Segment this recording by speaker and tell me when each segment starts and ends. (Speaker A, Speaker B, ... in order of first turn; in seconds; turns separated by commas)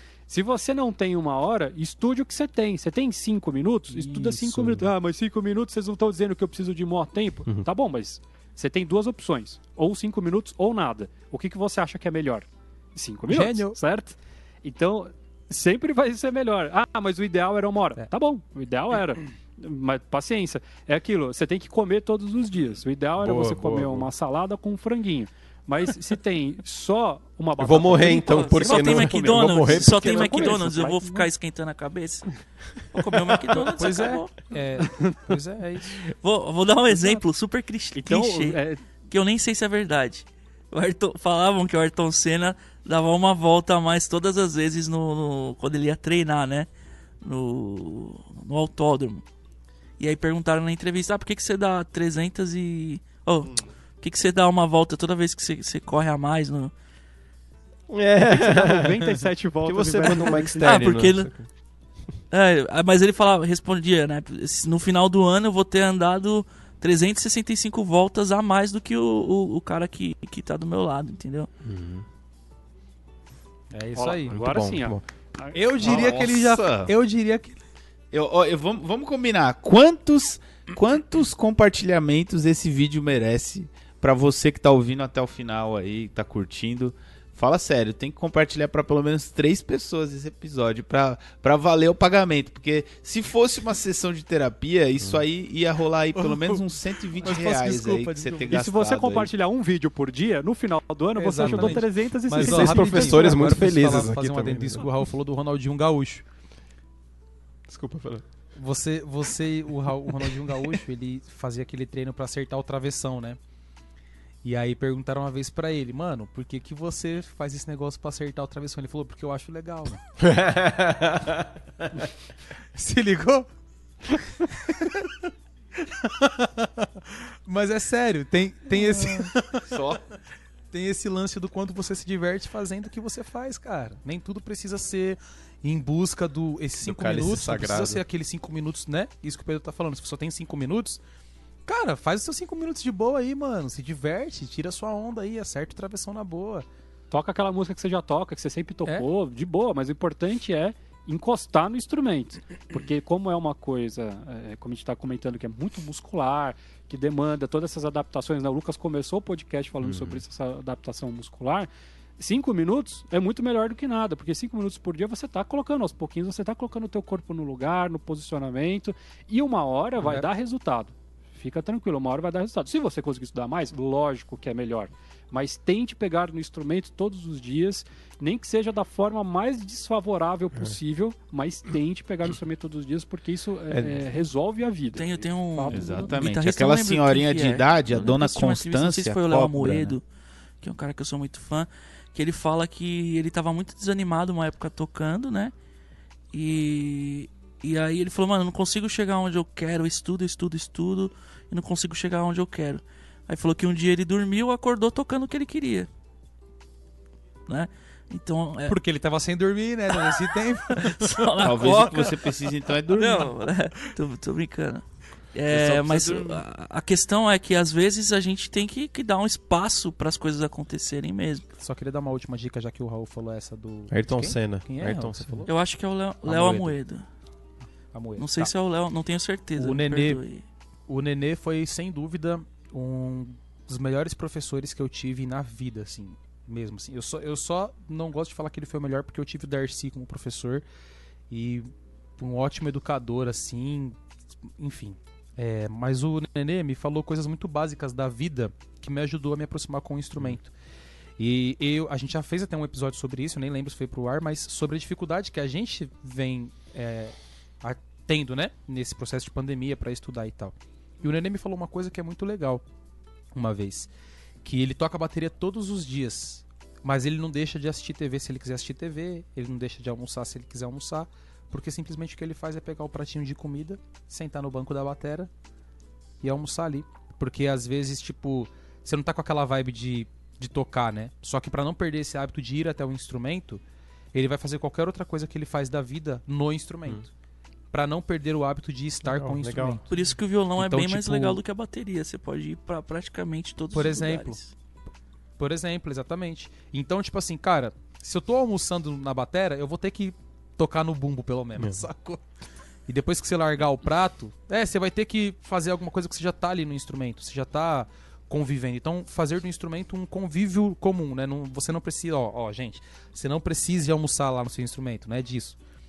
Speaker A: 0.3-31.3, Speaker B: 3.9-4.8, Speaker B: 13.3-13.8, Speaker C: 23.2-24.1, Speaker C: 27.6-30.9, Speaker D: 28.1-34.4, Speaker B: 33.6-36.0, Speaker D: 36.0-38.6, Speaker A: 36.9-37.2, Speaker A: 38.0-38.8, Speaker D: 39.1-46.7, Speaker D: 47.2-49.2, Speaker D: 50.0-56.7, Speaker C: 57.9-61.5, Speaker A: 58.3-61.0, Speaker D: 60.6-61.3, Speaker D: 62.3-71.5, Speaker C: 71.6-72.0, Speaker B: 73.7-74.4, Speaker A: 74.0-75.5, Speaker C: 74.3-75.0, Speaker B: 75.5-77.6, Speaker E: 75.8-76.9, Speaker E: 78.1-99.3, Speaker B: 96.2-96.6, Speaker B: 97.2-98.5, Speaker A: 98.5-103.8, Speaker B: 101.2-106.2, Speaker C: 101.4-104.9, Speaker C: 107.7-108.2, Speaker B: 108.5-113.4, Speaker B: 114.4-120.0, Speaker C: 120.2-121.5, Speaker B: 122.8-123.5, Speaker B: 124.4-125.3, Speaker B: 125.8-129.7, Speaker E: 129.7-130.0, Speaker B: 130.7-141.0, Speaker C: 136.8-138.0, Speaker B: 141.7-146.7, Speaker A: 147.1-186.2, Speaker C: 159.8-160.2, Speaker B: 170.0-170.3, Speaker C: 183.7-184.0, Speaker D: 184.9-190.0, Speaker E: 185.7-189.9, Speaker D: 190.6-195.5, Speaker D: 196.3-205.9, Speaker D: 207.5-208.8, Speaker B: 208.7-211.8, Speaker D: 210.7-212.3, Speaker E: 211.4-213.3, Speaker D: 212.9-221.5, Speaker E: 215.5-216.4, Speaker B: 221.6-225.5, Speaker C: 223.9-225.5, Speaker D: 225.5-227.1, Speaker B: 226.2-226.8, Speaker B: 227.9-228.5, Speaker D: 228.2-230.4, Speaker B: 229.6-230.2, Speaker B: 230.9-240.6, Speaker B: 241.3-244.0, Speaker B: 244.6-250.5, Speaker B: 251.2-262.6, Speaker B: 263.3-263.9, Speaker B: 264.4-275.3, Speaker B: 276.2-283.6, Speaker B: 284.1-287.1, Speaker B: 287.7-289.9, Speaker C: 289.0-290.0, Speaker D: 289.9-294.5, Speaker B: 290.6-291.4, Speaker B: 293.7-294.4, Speaker B: 295.4-302.2, Speaker C: 301.6-301.9, Speaker B: 302.9-315.6